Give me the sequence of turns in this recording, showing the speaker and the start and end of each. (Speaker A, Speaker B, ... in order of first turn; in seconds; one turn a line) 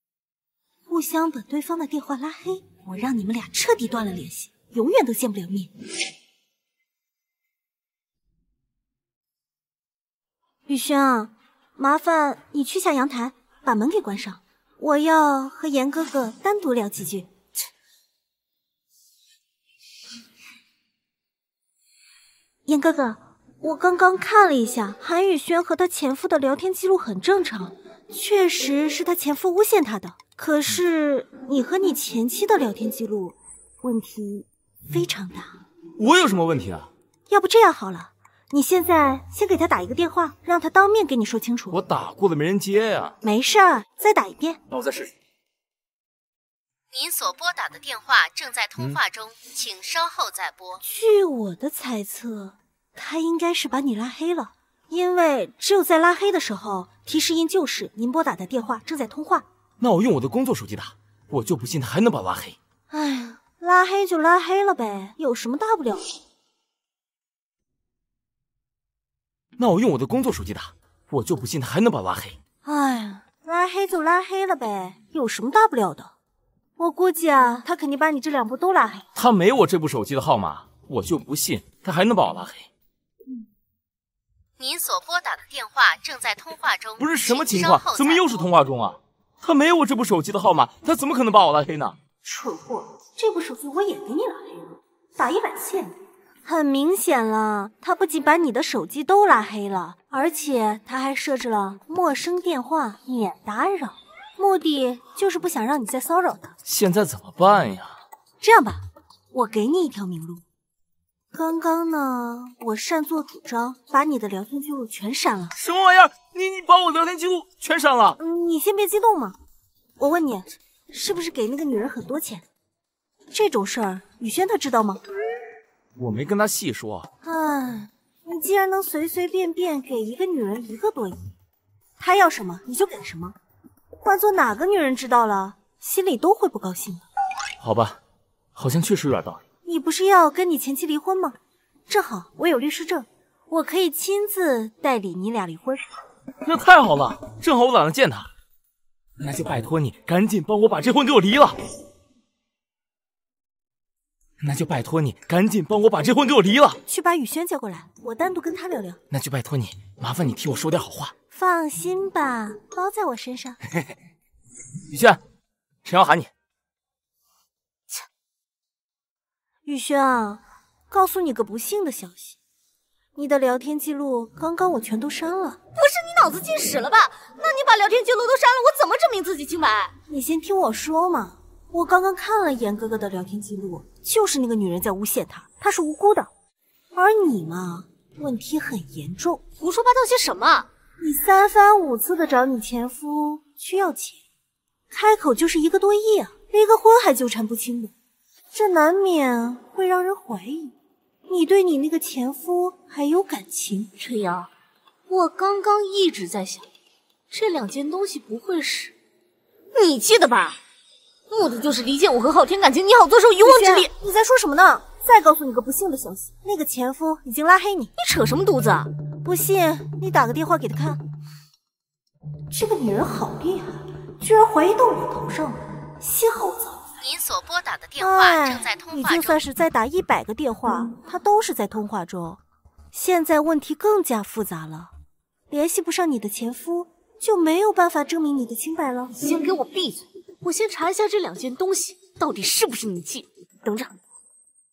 Speaker A: 0.9-5.7
Speaker A: 10.7-17.3
Speaker A: 22.6-35.5
Speaker B: 36.0-36.9
Speaker A: 37.3-41.8
Speaker B: 41.7-43.2
Speaker A: 43.2-44.6
Speaker B: 44.7-45.1
Speaker C: 46.9-50.8
Speaker A: 50.8-59.4
Speaker B: 59.8-62.6
Speaker A: 62.9-66.0
Speaker B: 69.6-72.4
Speaker A: 72.6-76.1
Speaker A: 76.8-79.0
Speaker B: 79.1-82.7
Speaker C: 84.6-88.4
Speaker B: 87.0-92.0
Speaker A: 92.2-95.9
Speaker A: 96.4-106.5
Speaker B: 106.7-108.0
Speaker A: 108.4-110.4
Speaker A: 111.3-115.5
Speaker B: 115.6-118.2
Speaker A: 118.2-119.4
Speaker A: 120.0-122.4
Speaker A: 123.3-125.0
Speaker B: 126.0-127.1
Speaker A: 127.2-131.3
Speaker A: 132.0-133.4
Speaker A: 134.0-137.0
Speaker B: 137.6-138.0
Speaker B: 138.6-139.4
Speaker A: 139.6-141.4
Speaker A: 141.9-145.8
Speaker B: 146.4-148.3
Speaker B: 149.2-151.6
Speaker B: 154.4-156.8
Speaker A: 156.9-159.0
Speaker B: 159.1-161.1
Speaker A: 161.3-163.6
Speaker B: 164.9-165.2
Speaker B: 165.8-166.3
Speaker A: 169.6-172.4
Speaker A: 173.1-175.6
Speaker D: 175.8-179.9
Speaker A: 180.1-186.3
Speaker A: 186.9-189.4
Speaker D: 189.6-190.7
Speaker A: 191.0-194.2
Speaker A: 194.9-197.9
Speaker A: 198.5-200.7
Speaker A: 201.3-203.9
Speaker D: 204.0-204.5
Speaker D: 205.1-206.7
Speaker D: 207.3-208.9
Speaker D: 209.7-210.6
Speaker D: 211.3-213.9
Speaker A: 213.4-217.9
Speaker D: 218.0-218.9
Speaker A: 219.2-221.0
Speaker A: 222.5-226.8
Speaker C: 227.0-229.4
Speaker A: 228.0-232.4
Speaker A: 232.9-234.9
Speaker A: 235.5-239.1
Speaker D: 239.1-243.9